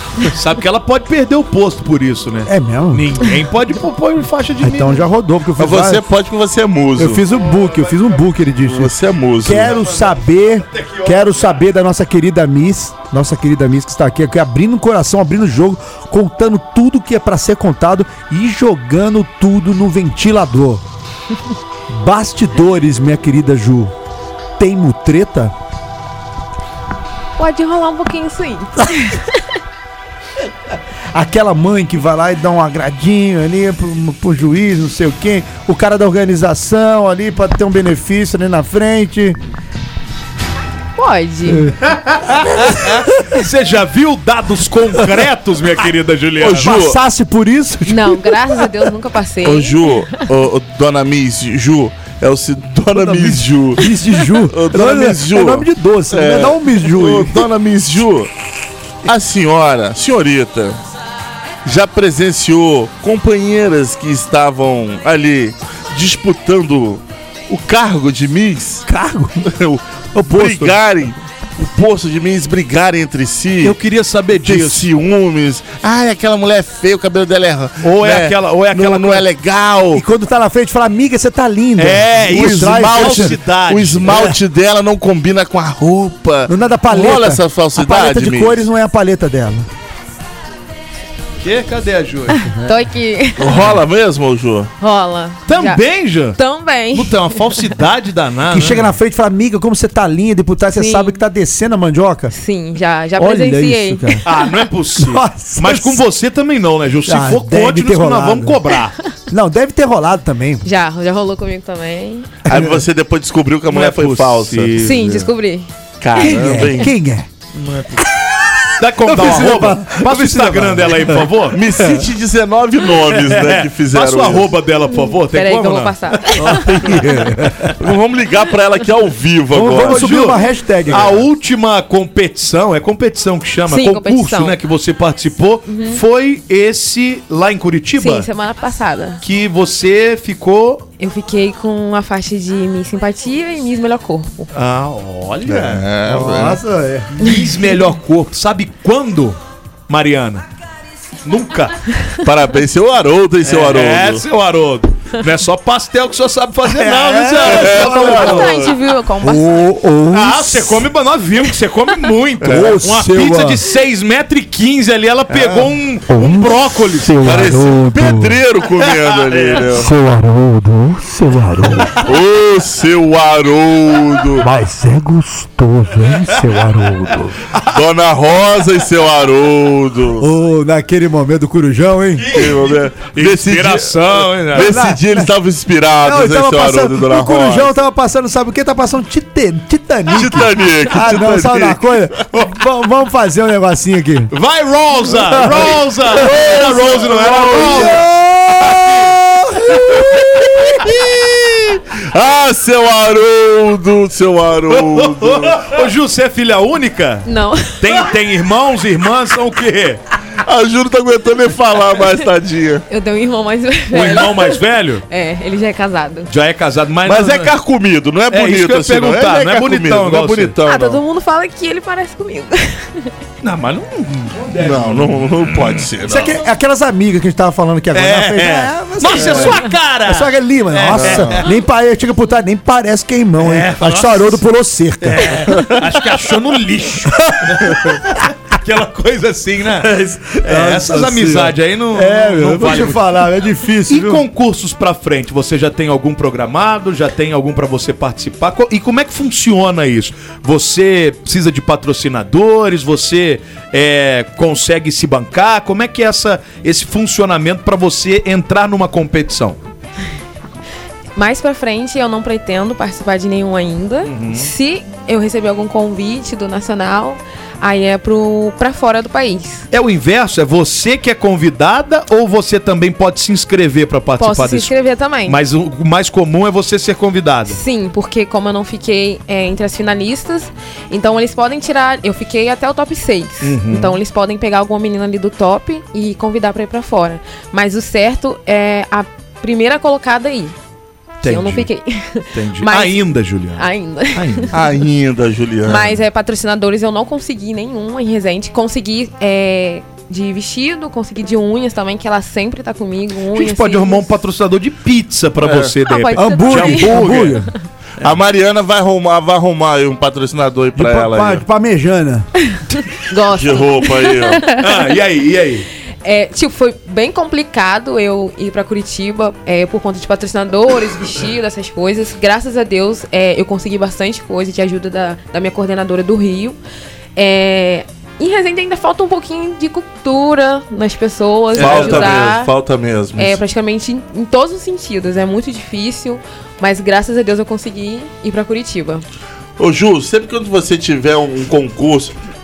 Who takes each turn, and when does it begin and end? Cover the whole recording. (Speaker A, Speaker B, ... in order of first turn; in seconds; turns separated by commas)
Speaker A: 0.3-5.0, Speaker B: 2.5-3.1, Speaker B: 4.6-6.0, Speaker C: 5.6-7.2, Speaker B: 7.0-20.8, Speaker A: 7.3-8.2, Speaker C: 8.7-9.7, Speaker A: 9.5-11.7, Speaker B: 21.9-23.9, Speaker B: 24.6-25.5, Speaker D: 27.4-29.4, Speaker B: 31.1-39.4, Speaker D: 41.0-41.7, Speaker A: 41.8-46.8, Speaker B: 42.6-43.0, Speaker C: 46.4-47.0, Speaker B: 46.4-48.7, Speaker D: 47.9-50.2, Speaker C: 49.4-58.3, Speaker B: 52.9-57.5, Speaker C: 59.0-60.8, Speaker C: 61.6-68.8, Speaker B: 68.8-69.5, Speaker C: 69.4-73.8, Speaker B: 70.1-70.8, Speaker A: 73.6-74.8, Speaker C: 74.4-80.0, Speaker A: 77.8-79.2, Speaker B: 79.9-83.4, Speaker A: 81.8-84.3, Speaker C: 82.3-88.7, Speaker B: 86.5-89.7, Speaker A: 91.4-92.5, Speaker D: 92.3-93.7, Speaker C: 93.4-94.7, Speaker D: 94.8-97.7, Speaker A: 95.5-96.4, Speaker A: 96.9-98.9, Speaker B: 98.5-102.3, Speaker D: 100.7-101.2, Speaker D: 102.3-104.2, Speaker B: 103.2-104.2, Speaker A: 104.2-109.0, Speaker B: 105.0-106.0, Speaker B: 107.0-108.6, Speaker B: 109.3-110.6, Speaker D: 110.6-112.4, Speaker B: 112.4-112.9, Speaker C: 112.5-115.2, Speaker A: 113.7-115.2, Speaker D: 114.8-115.7, Speaker C: 116.0-116.9, Speaker B: 116.2-117.3, Speaker A: 117.6-118.0, Speaker A: 118.8-121.6, Speaker B: 119.0-122.0, Speaker C: 121.5-124.5, Speaker A: 123.1-127.0, Speaker D: 125.0-127.0, Speaker B: 126.5-127.7, Speaker C: 127.7-130.3, Speaker B: 129.5-131.3, Speaker A: 129.6-130.4, Speaker A: 130.9-138.3, Speaker D: 133.7-134.6, Speaker D: 135.7-136.0, Speaker D: 137.9-139.2, Speaker A: 139.2-140.8, Speaker D: 141.0-144.5, Speaker A: 144.5-145.8, Speaker C: 145.4-146.6, Speaker B: 146.0-147.2, Speaker A: 147.2-150.4, Speaker A: 151.2-151.8, Speaker C: 152.2-154.2, Speaker A: 153.4-158.5, Speaker B: 156.6-158.5, Speaker C: 157.4-158.7, Speaker D: 157.7-159.6, Speaker B: 159.2-160.9, Speaker A: 160.1-167.4, Speaker B: 162.4-163.6, Speaker C: 162.4-162.7, Speaker C: 165.3-165.7, Speaker B: 166.1-168.4, Speaker C: 167.2-169.9, Speaker A: 169.2-169.7, Speaker B: 169.7-171.9, Speaker C: 172.0-174.5, Speaker B: 174.4-177.4, Speaker A: 177.5-177.8, Speaker C: 177.7-180.3, Speaker B: 180.2-182.6, Speaker A: 182.1-184.8, Speaker C: 182.3-187.7, Speaker B: 184.5-185.3, Speaker B: 186.0-194.3, Speaker C: 190.1-191.8, Speaker A: 194.3-198.0, Speaker B: 195.0-200.9, Speaker C: 195.4-198.1, Speaker A: 198.8-199.1, Speaker C: 199.8-205.8, Speaker A: 204.7-210.0, Speaker D: 207.2-208.1, Speaker C: 210.4-212.8, Speaker D: 212.9-216.3, Speaker A: 213.9-215.0, Speaker A: 216.3-217.6, Speaker C: 217.0-221.0, Speaker A: 218.3-220.6, Speaker D: 220.7-223.1, Speaker A: 223.4-226.2, Speaker C: 224.6-226.3, Speaker B: 226.0-235.9, Speaker A: 227.9-231.5, Speaker C: 230.9-231.4, Speaker A: 233.4-234.4, Speaker A: 235.0-243.1, Speaker B: 237.1-238.0, Speaker B: 239.8-244.2, Speaker A: 243.9-259.6, Speaker D: 261.1-269.6, Speaker A: 264.0-264.5, Speaker A: 269.7-274.7, Speaker D: 274.2-275.4, Speaker A: 275.2-277.6, Speaker D: 277.5-290.5, Speaker A: 283.4-284.0, Speaker A: 291.2-291.7, Speaker D: 291.2-294.5, Speaker A: 292.3-294.5, Speaker C: 294.5-296.0, Speaker D: 295.6-304.1, Speaker A: 303.3-307.4, Speaker C: 305.4-305.7, Speaker D: 305.8-307.2, Speaker B: 306.1-307.5, Speaker C: 308.0-311.4, Speaker B: 310.7-312.3, Speaker D: 312.5-314.8, Speaker C: 313.2-314.4, Speaker A: 314.5-315.7, Speaker D: 316.0-326.6, Speaker D: 327.1-332.5, Speaker C: 331.5-333.4, Speaker A: 331.5-332.2, Speaker D: 333.1-339.0, Speaker C: 339.6-342.1